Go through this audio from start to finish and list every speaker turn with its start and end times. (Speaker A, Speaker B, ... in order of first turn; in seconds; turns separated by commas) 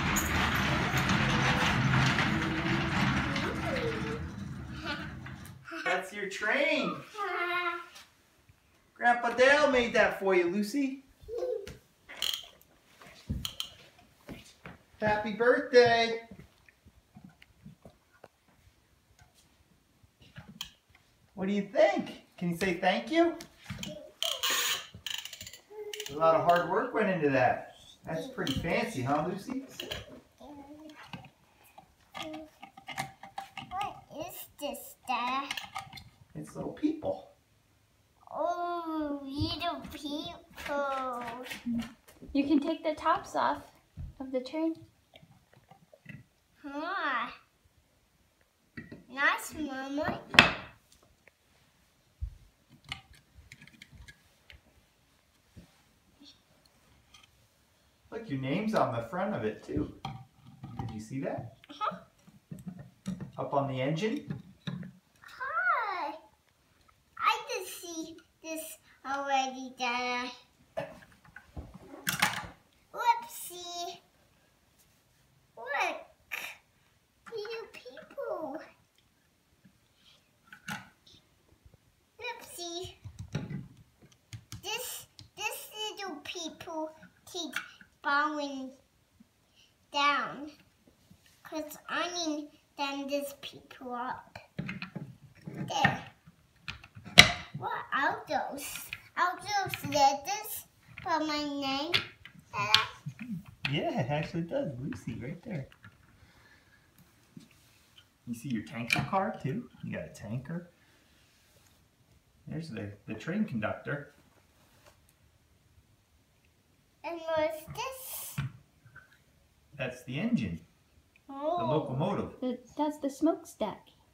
Speaker A: 1.0-1.2, Speaker A: 2.8-4.2, Speaker B: 5.8-7.1, Speaker A: 7.1-7.8, Speaker B: 8.9-11.0, Speaker A: 11.3-11.6, Speaker B: 15.0-16.2, Speaker B: 21.4-23.4, Speaker A: 23.9-24.5, Speaker A: 25.9-26.7, Speaker B: 26.1-29.7, Speaker A: 28.1-29.0, Speaker A: 30.4-30.9, Speaker A: 32.2-32.5, Speaker A: 33.7-35.5, Speaker B: 36.3-37.3, Speaker A: 38.3-41.5, Speaker C: 41.7-44.8, Speaker A: 46.6-47.4, Speaker A: 49.1-50.3, Speaker B: 58.1-60.0, Speaker B: 60.7-61.5, Speaker B: 63.4-64.3, Speaker A: 65.2-66.2, Speaker A: 67.2-70.3, Speaker A: 72.9-74.0, Speaker A: 75.5-76.5, Speaker A: 77.3-78.6, Speaker A: 82.2-83.0, Speaker A: 84.6-88.8, Speaker A: 89.9-90.5, Speaker A: 91.4-94.4, Speaker A: 95.6-96.1, Speaker A: 97.6-102.0, Speaker A: 102.5-102.9, Speaker B: 103.6-105.7, Speaker B: 108.2-110.7, Speaker B: 112.5-114.1, Speaker A: 117.0-118.4, Speaker B: 119.8-120.7, Speaker A: 121.3-122.1, Speaker B: 121.6-122.4, Speaker C: 122.4-123.9